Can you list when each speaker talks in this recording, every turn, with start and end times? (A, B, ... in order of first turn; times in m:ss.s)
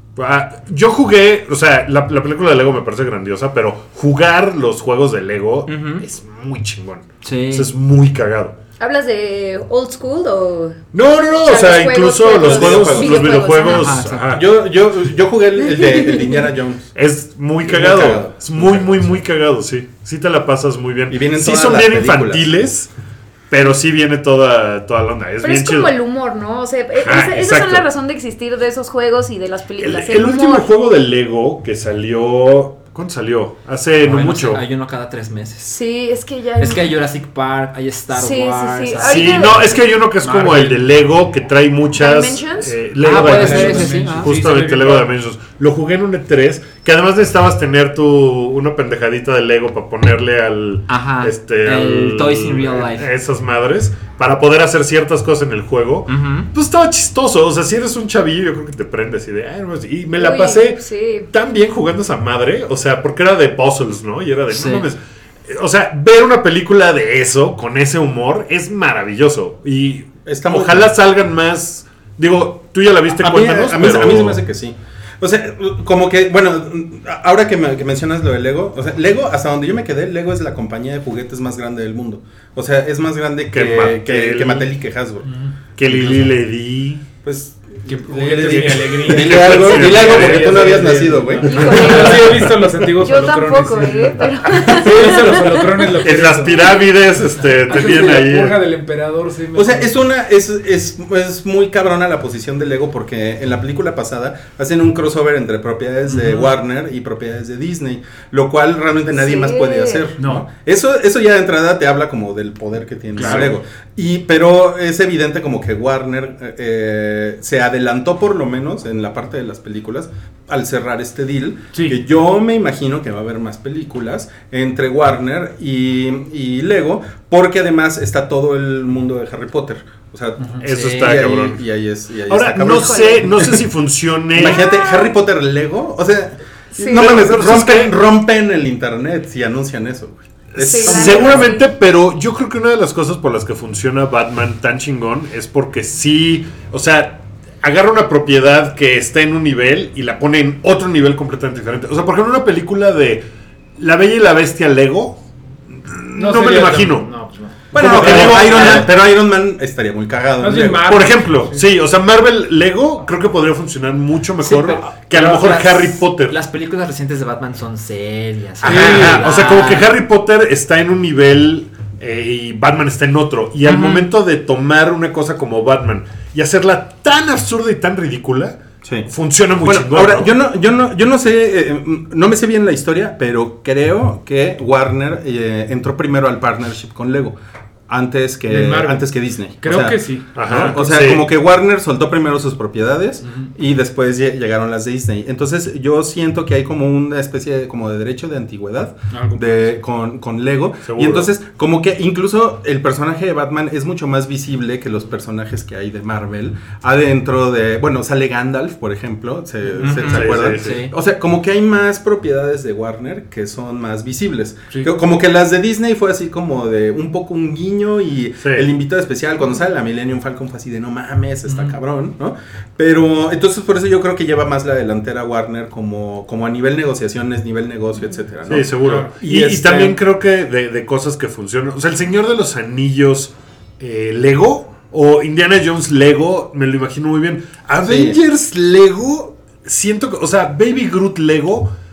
0:00.2-0:08.5 A
0:05.7-0:06.0 B
0:07.2-0:07.7 B
0:08.8-0:10.8 C
0:10.9-0:14.6 A
0:11.4-0:13.9 C
0:12.3-0:13.4 D
0:13.6-0:14.4 B
0:14.3-0:16.9 D
0:15.6-0:16.5 C
0:16.9-0:22.9 A
0:17.6-0:19.2 D
0:21.1-0:22.5 D
0:23.5-0:25.9 A
0:25.4-0:30.7 C
0:27.0-0:27.9 A
0:29.8-0:34.6 A
0:34.0-0:35.7 B
0:35.6-0:36.9 C
0:36.6-0:39.7 B
0:38.1-0:39.7 C
0:39.0-1:14.4 A
0:40.2-0:40.9 E
0:41.9-0:42.8 C
0:43.0-0:44.4 B
0:43.1-0:45.1 E
0:50.9-0:53.1 B
0:56.1-0:56.5 B
1:00.2-1:01.3 C
1:04.5-1:04.9 B
1:10.2-1:10.9 D
1:13.1-1:25.3 D
1:23.5-1:24.7 A
1:25.2-1:25.5 E
1:25.8-1:27.0 A
1:25.8-1:26.3 D
1:27.2-1:32.4 D
1:27.8-1:36.8 E
1:28.4-1:30.8 A
1:31.4-1:35.9 C
1:36.0-1:38.6 A
1:37.7-1:39.9 E
1:39.5-2:13.7 D
1:46.1-1:46.4 E
1:49.2-1:50.1 C
1:50.2-1:50.5 E
1:53.1-1:53.6 E
2:01.7-2:02.0 E
2:10.4-2:10.6 E
2:10.6-2:11.6 A
2:10.6-2:11.2 B
2:12.3-2:14.6 A
2:12.7-2:13.2 C
2:14.3-2:21.5 D
2:14.4-2:15.1 C
2:16.7-2:17.1 C
2:16.8-2:18.0 A
2:20.6-2:33.2 A
2:20.6-2:21.7 C
2:33.8-2:35.2 A
2:35.7-2:37.1 A
2:36.1-2:38.8 E
2:37.7-2:38.9 A
2:37.7-2:41.0 D
2:40.4-2:41.7 E
2:40.9-2:46.4 A
2:44.4-2:50.0 B
2:48.6-2:49.3 E
2:48.6-3:00.3 A
2:53.6-2:54.1 B
2:58.8-2:59.1 D
2:59.6-3:07.4 D
3:07.9-3:50.0 D
3:08.5-3:10.8 E
3:10.3-3:11.2 A
3:19.1-3:19.8 E
3:20.8-3:21.3 A
3:29.8-3:30.9 B
3:30.0-3:30.8 A
3:41.5-3:41.8 E
3:48.5-4:01.7 A
3:48.8-3:49.2 E
3:57.8-3:58.2 D